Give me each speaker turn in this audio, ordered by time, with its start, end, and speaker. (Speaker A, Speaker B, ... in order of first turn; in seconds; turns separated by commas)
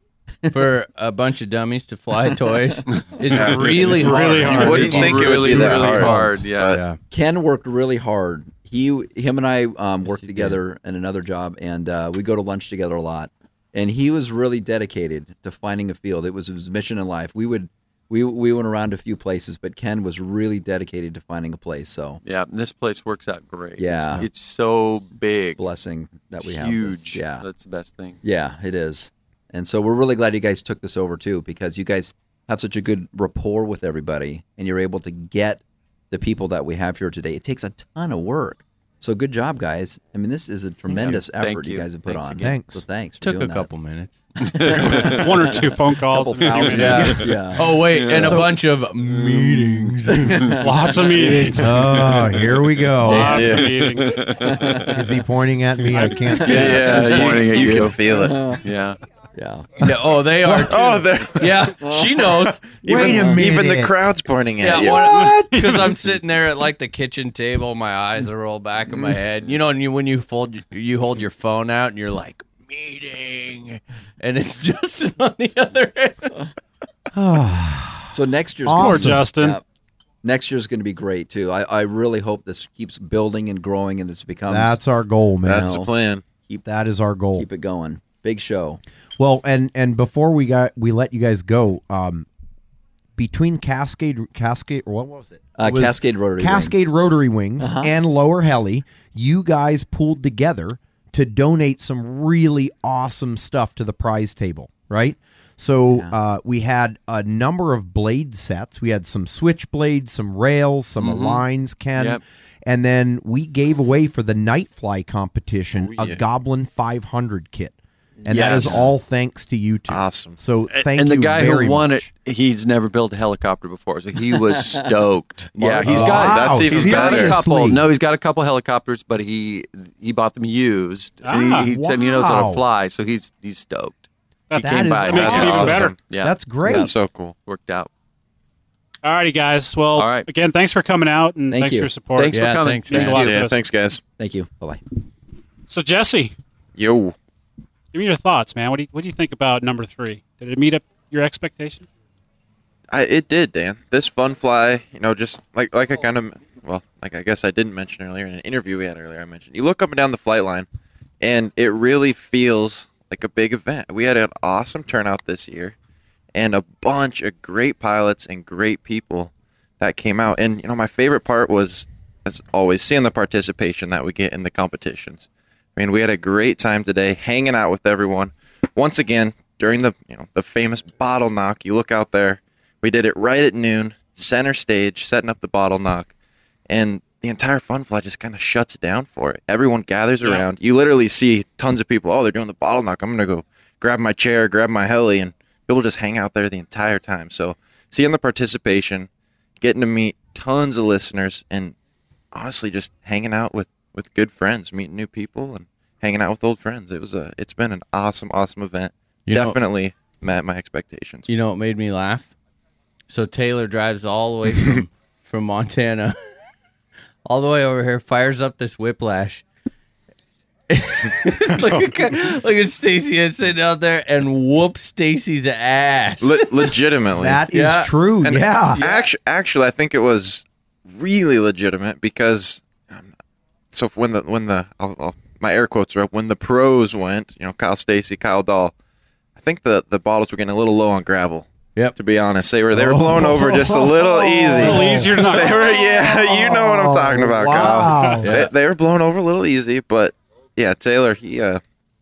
Speaker A: 0.5-7.0, Speaker B: 3.3-6.8, Speaker C: 4.0-4.9, Speaker D: 4.0-6.8, Speaker E: 7.1-22.2, Speaker A: 10.0-10.6, Speaker D: 22.2-25.6, Speaker E: 23.8-24.3, Speaker E: 25.6-27.4, Speaker D: 26.4-28.2, Speaker E: 28.2-43.7, Speaker A: 40.9-41.2, Speaker D: 41.0-42.7, Speaker F: 42.4-42.8, Speaker A: 43.2-44.9, Speaker D: 44.5-45.2, Speaker E: 44.7-48.4, Speaker C: 45.0-47.2, Speaker A: 46.6-50.5, Speaker D: 47.9-48.5, Speaker F: 48.2-48.5, Speaker E: 50.2-50.4, Speaker C: 50.6-51.8, Speaker F: 51.6-53.5, Speaker C: 53.0-54.2, Speaker E: 53.1-53.4, Speaker B: 53.2-53.7, Speaker D: 53.8-54.9, Speaker E: 54.5-54.9, Speaker F: 54.9-57.9, Speaker C: 55.9-56.4, Speaker E: 56.2-57.6, Speaker D: 56.4-58.0, Speaker B: 56.5-58.5, Speaker E: 58.1-58.6, Speaker D: 58.6-59.0, Speaker E: 59.3-59.8, Speaker A: 59.8-63.3, Speaker F: 60.4-60.8, Speaker B: 60.6-61.7, Speaker E: 61.8-62.1, Speaker F: 62.8-64.0, Speaker B: 62.8-65.2, Speaker E: 62.9-63.4, Speaker A: 64.6-76.4, Speaker F: 65.0-65.7, Speaker C: 65.2-65.5, Speaker F: 77.1-79.3, Speaker E: 78.1-79.6, Speaker C: 78.7-79.6, Speaker E: 80.2-84.8, Speaker F: 84.5-85.8, Speaker B: 85.4-86.3, Speaker E: 85.5-85.9, Speaker F: 86.7-87.5, Speaker E: 87.3-88.8, Speaker F: 89.2-92.3, Speaker F: 93.2-122.1, Speaker E: 95.6-96.9, Speaker E: 97.6-97.9, Speaker E: 105.9-106.2, Speaker D: 111.0-112.2, Speaker B: 115.9-116.2, Speaker D: 118.3-118.9, Speaker B: 118.3-118.9, Speaker B: 119.9-120.4, Speaker D: 120.7-136.3, Speaker E: 125.5-126.4, Speaker F: 125.8-127.8, Speaker A: 125.9-126.2, Speaker B: 126.1-127.4, Speaker C: 131.2-131.7, Speaker F: 131.6-132.6, Speaker C: 134.5-135.9, Speaker F: 134.6-136.9, Speaker B: 135.1-136.0, Speaker E: 136.6-136.9, Speaker B: 136.7-137.4, Speaker D: 137.4-137.9, Speaker C: 139.0-143.6, Speaker D: 140.0-140.3, Speaker E: 141.5-142.0, Speaker D: 142.2-143.3, Speaker A: 142.3-143.3, Speaker B: 143.1-144.0, Speaker E: 144.2-144.8, Speaker C: 145.7-146.4, Speaker B: 146.8-147.2, Speaker C: 147.9-151.9, Speaker B: 152.9-160.7, Speaker B: 161.2-165.8, Speaker B: 166.3-186.1, Speaker B: 186.7-199.1, Speaker B: 199.6-201.8, Speaker B: 202.3-211.3, Speaker A: 209.3-209.6, Speaker A: 211.3-212.3, Speaker A: 213.1-216.2, Speaker A: 217.3-219.4, Speaker A: 220.7-226.7, Speaker B: 226.2-227.5, Speaker F: 227.2-228.8, Speaker A: 227.5-227.9, Speaker B: 228.2-233.1, Speaker B: 233.7-238.7, Speaker B: 239.4-251.6, Speaker F: 242.7-248.5, Speaker C: 244.6-245.8, Speaker A: 248.2-248.5